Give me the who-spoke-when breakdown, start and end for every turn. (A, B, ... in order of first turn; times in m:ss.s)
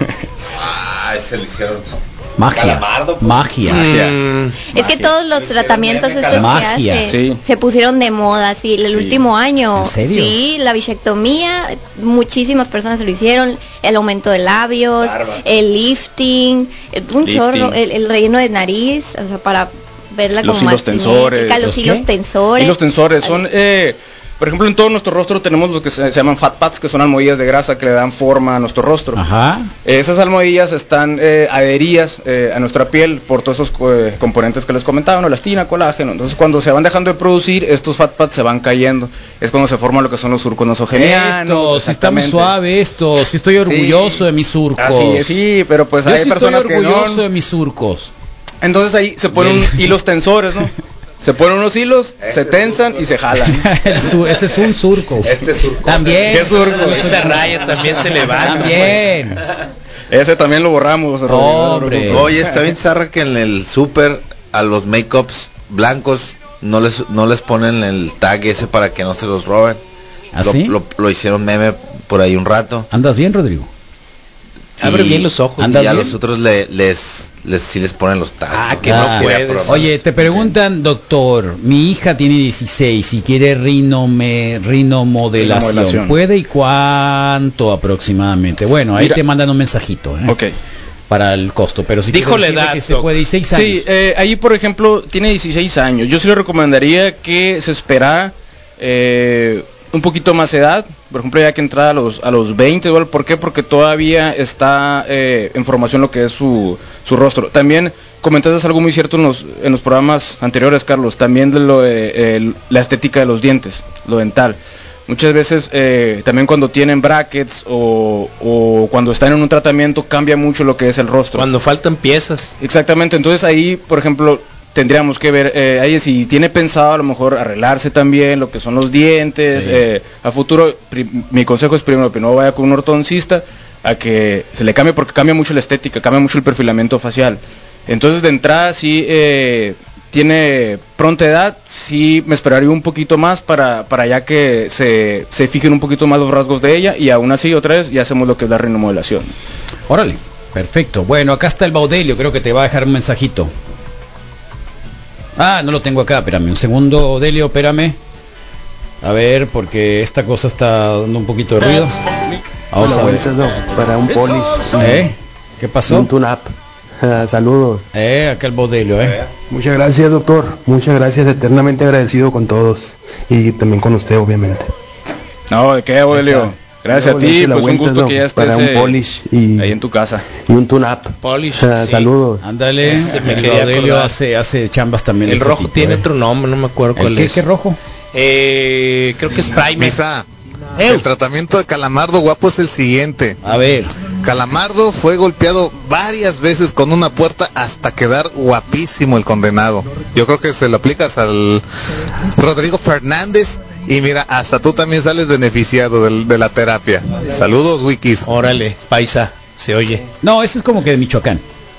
0:00.5-0:03.4 A
0:02.4-0:04.0 B
0:03.6-0:04.6 C
0:03.7-0:04.2 D
0:04.7-0:23.4 E
0:04.8-0:05.1 D
0:05.3-0:06.8 A
0:06.3-0:07.1 B
0:07.0-0:07.4 D
0:08.9-0:09.2 D
0:09.8-0:10.3 B
0:15.0-0:15.4 A
0:17.2-0:17.8 D
0:20.4-0:21.8 D
0:21.6-0:22.0 B
0:22.6-0:29.2 D
0:29.1-0:29.7 B
0:29.8-0:42.5 D
0:40.9-0:45.4 B
0:43.6-0:44.2 D
0:44.8-0:47.2 D
0:46.0-0:48.1 B
0:48.6-0:53.8 D
0:49.3-0:49.8 B
0:52.2-0:53.1 A
0:53.4-0:57.4 B
0:54.0-0:54.4 A
0:55.2-0:57.6 A
0:56.3-0:57.3 D
0:56.8-0:59.0 C
0:58.4-0:59.4 B
1:00.1-1:02.6 D
1:01.3-1:02.3 B
1:02.1-1:09.8 A
1:10.3-1:10.8 B
1:10.4-1:12.9 A
1:12.9-1:13.7 B
1:14.8-1:16.1 C
1:14.8-1:19.9 A
1:15.6-1:16.1 B
1:18.5-1:20.0 C
1:18.8-1:30.4 B
1:25.4-1:26.2 D
1:29.0-1:29.2 D
1:31.1-1:33.8 B
1:32.1-1:33.2 C
1:33.5-2:01.5 D
2:01.3-2:02.5 C
2:02.6-2:29.3 D
2:09.5-2:09.8 B
2:29.9-2:33.5 B
2:35.4-2:38.0 B
2:39.0-2:42.0 B
2:42.7-2:43.3 B
2:42.8-2:45.1 F
2:44.2-2:44.8 A
2:44.8-2:46.1 B
2:45.9-2:47.8 F
2:47.9-2:49.2 B
2:49.0-2:49.2 A
2:49.5-2:54.7 F
2:55.5-2:59.0 D
2:56.9-2:59.8 F
2:59.6-3:00.2 D
3:00.4-3:02.4 F
3:01.2-3:02.1 C
3:02.4-3:06.0 B
3:02.8-3:04.1 C
3:05.2-3:07.4 C
3:07.0-3:07.8 B
3:08.1-3:10.0 C
3:09.6-3:10.2 G
3:10.8-3:11.0 C
3:10.8-3:13.4 G
3:13.4-3:13.9 B
3:14.2-3:21.6 G
3:22.2-3:28.3 G
3:28.2-3:30.0 C
3:30.2-3:31.4 B